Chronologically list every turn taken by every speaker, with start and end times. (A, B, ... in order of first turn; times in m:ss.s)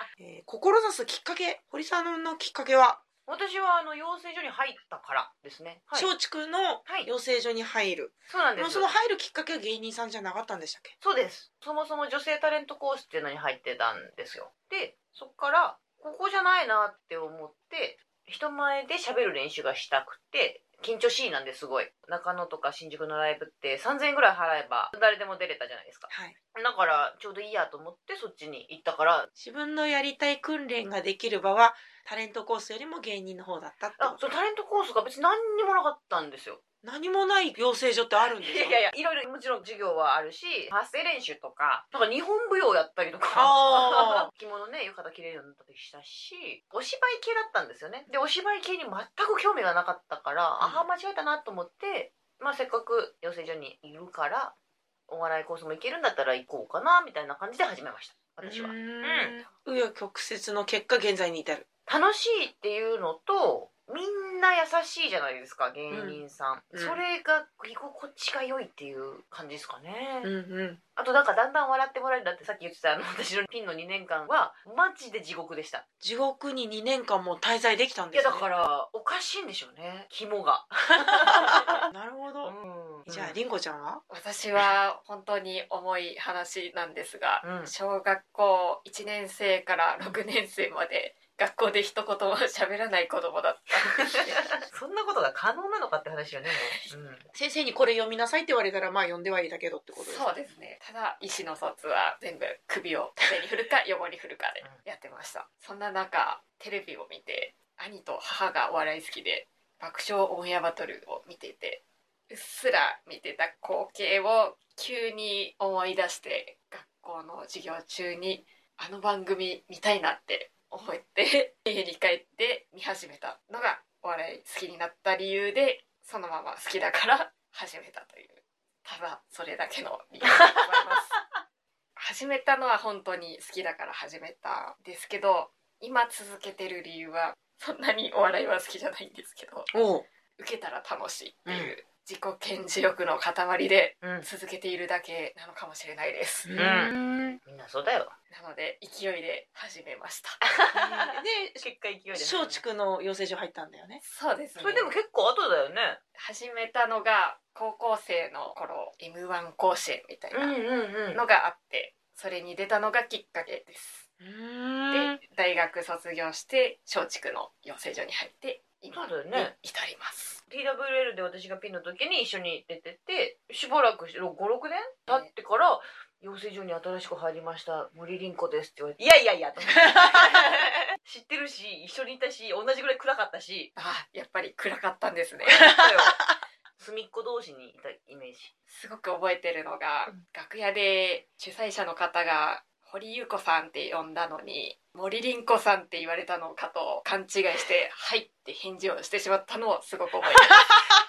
0:00.2-0:03.0 A
0:03.3-0:06.1 B
0:05.9-0:10.9 A
0:08.3-0:08.9 B
0:11.0-0:29.3 B
0:26.1-0:26.4 A
0:29.4-0:34.2 A
0:34.0-0:36.6 B
0:36.8-0:38.8 A
0:38.3-0:54.5 B
0:43.3-0:44.3 A
0:50.6-0:50.9 A
0:55.1-0:59.3 B
0:58.4-1:01.6 A
1:01.9-1:10.3 B
1:05.9-1:06.2 A
1:06.7-1:07.0 A
1:10.2-1:10.8 A
1:11.0-1:15.8 B
1:16.0-1:18.4 A
1:18.1-1:21.9 B
1:21.0-1:22.5 A
1:22.4-1:23.4 B
1:23.0-1:24.0 A
1:24.1-1:34.6 C
1:27.4-1:27.7 B
1:34.0-1:37.2 B
1:36.5-1:36.9 C
1:37.3-1:40.2 A
1:40.0-2:11.2 C
2:10.3-2:10.7 B
2:12.0-2:19.7 C
2:19.7-2:20.0 A
2:20.4-2:26.5 C
2:21.4-2:21.7 A
2:24.0-2:24.3 B
2:26.5-2:27.4 A
2:26.6-2:28.1 B
2:28.3-2:30.4 C
2:30.4-2:32.6 B
2:30.7-2:34.0 A
2:34.0-2:34.9 C
2:34.6-2:36.0 B
2:36.2-2:40.6 C
2:40.3-2:41.2 B
2:41.1-2:44.1 C
2:44.2-2:45.2 A
2:44.9-2:50.4 C
2:48.9-2:49.5 B
2:50.5-3:03.7 B
3:03.8-3:06.1 C
3:05.4-3:06.2 B
3:06.8-3:08.5 B
3:08.7-3:20.9 C